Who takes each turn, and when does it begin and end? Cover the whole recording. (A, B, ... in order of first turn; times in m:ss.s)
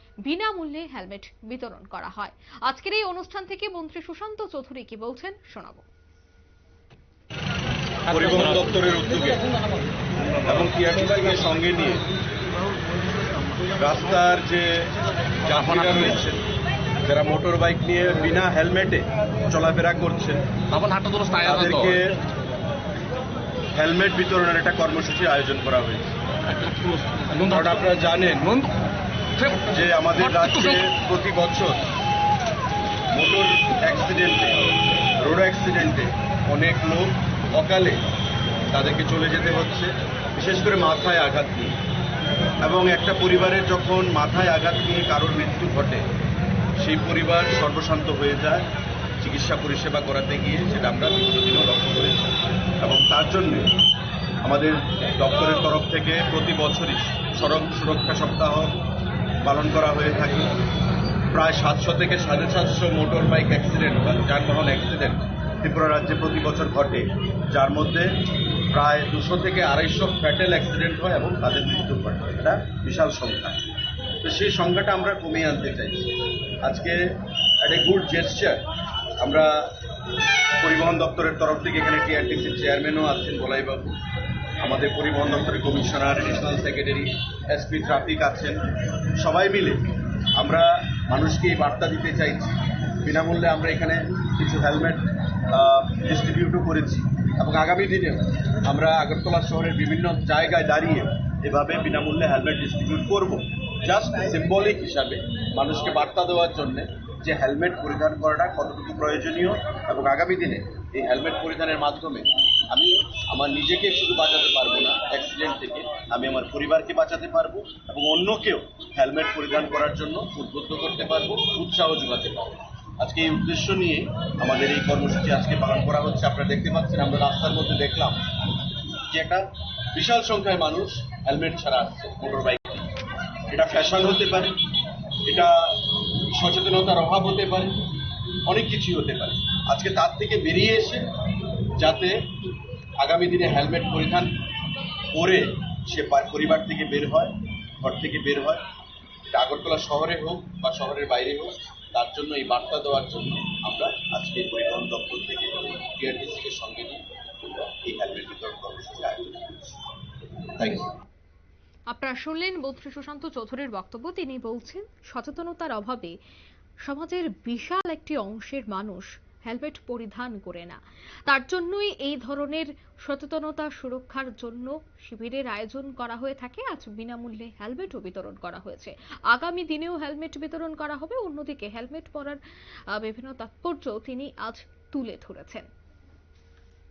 0:00.2-0:05.8 A
0:08.1-0:09.4 B
0:10.4-0:12.0 B
0:13.8-0:16.4 B
0:17.0-0:20.5 B
0:20.7-0:22.0 C
0:21.4-0:22.2 B
0:23.7-0:26.2 B
0:26.6-0:27.5 C
0:27.4-0:28.6 B
0:29.4-0:29.6 C
0:29.6-0:31.8 B
0:33.1-0:34.7 B
0:35.2-0:38.0 B
0:38.7-0:41.8 B
0:42.6-0:46.0 B
0:46.8-0:48.7 B
0:49.2-0:53.7 B
0:54.4-0:58.8 B
0:59.4-1:00.5 B
1:01.3-1:08.2 B
1:08.7-1:13.6 B
1:14.2-1:18.6 B
1:19.2-1:19.7 B
1:20.6-1:24.0 B
1:24.6-1:28.7 B
1:29.2-2:08.2 B
2:09.1-2:12.8 B
2:13.5-2:14.6 B
2:15.2-2:17.8 B
2:18.5-2:21.1 B
2:21.8-2:22.3 B
2:23.0-2:24.4 B
2:25.1-2:28.6 B
2:29.3-2:39.8 B
2:40.6-2:41.0 B
2:41.9-2:46.2 A
2:46.8-3:02.4 A
3:02.9-3:05.7 A